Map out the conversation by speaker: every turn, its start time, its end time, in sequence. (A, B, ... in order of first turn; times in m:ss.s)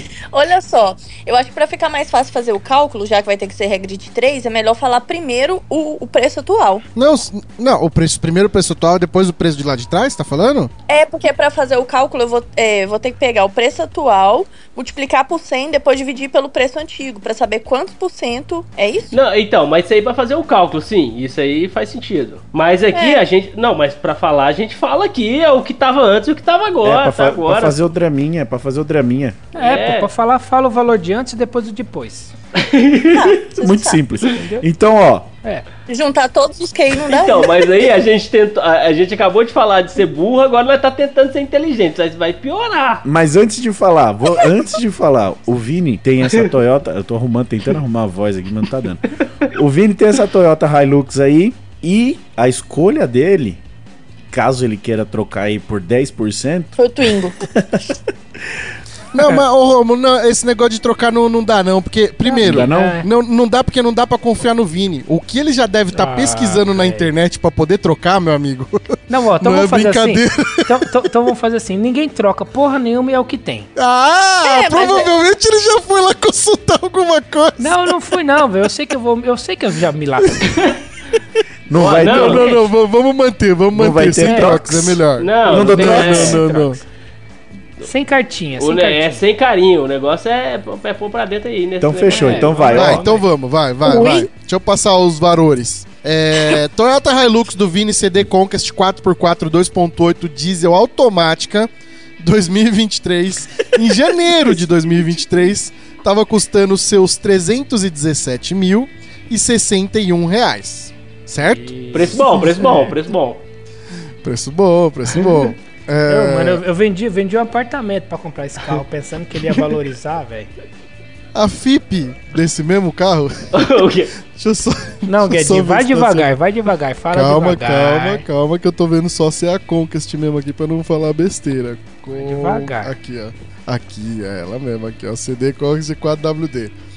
0:00.3-0:06.8 A
0:07.0-0:10.7 B
0:10.9-0:19.1 A
0:19.1-0:27.8 C
0:22.9-0:23.2 A
0:26.8-0:29.4 D
0:29.6-0:30.1 C
0:29.6-0:32.3 E
0:32.5-0:33.3 C
0:33.0-0:34.0 A
0:33.6-0:35.3 D
0:34.4-0:34.6 E
0:35.9-0:37.9 A
0:37.0-0:43.0 C
0:43.0-0:53.6 D
0:54.3-0:56.8 D
0:56.8-0:57.4 A
0:57.4-0:58.0 D
0:59.1-1:11.1 B
1:02.2-1:03.1 E
1:02.4-1:03.0 D
1:05.9-1:07.1 E
1:09.1-1:13.7 E
1:13.8-1:18.0 B
1:14.4-1:15.1 A
1:17.6-1:20.8 E
1:21.7-1:22.5 D
1:21.7-1:22.5 C
1:22.0-1:26.8 B
1:22.2-1:22.6 E
1:23.7-1:26.4 D
1:24.2-1:24.8 E
1:25.2-1:26.4 C
1:25.5-1:26.8 E
1:27.8-1:29.2 E
1:28.6-1:32.8 C
1:31.8-1:33.1 D
1:32.0-1:33.2 E
1:32.7-1:52.2 B
1:33.8-1:34.3 A
1:51.5-1:52.8 E
1:51.9-1:53.4 C
1:54.2-1:56.6 B
1:56.1-2:00.5 E
2:01.3-2:03.7 B
2:03.5-2:04.1 C
2:04.3-2:06.3 B
2:05.1-2:08.2 E
2:07.1-2:16.7 B
2:12.1-2:12.9 E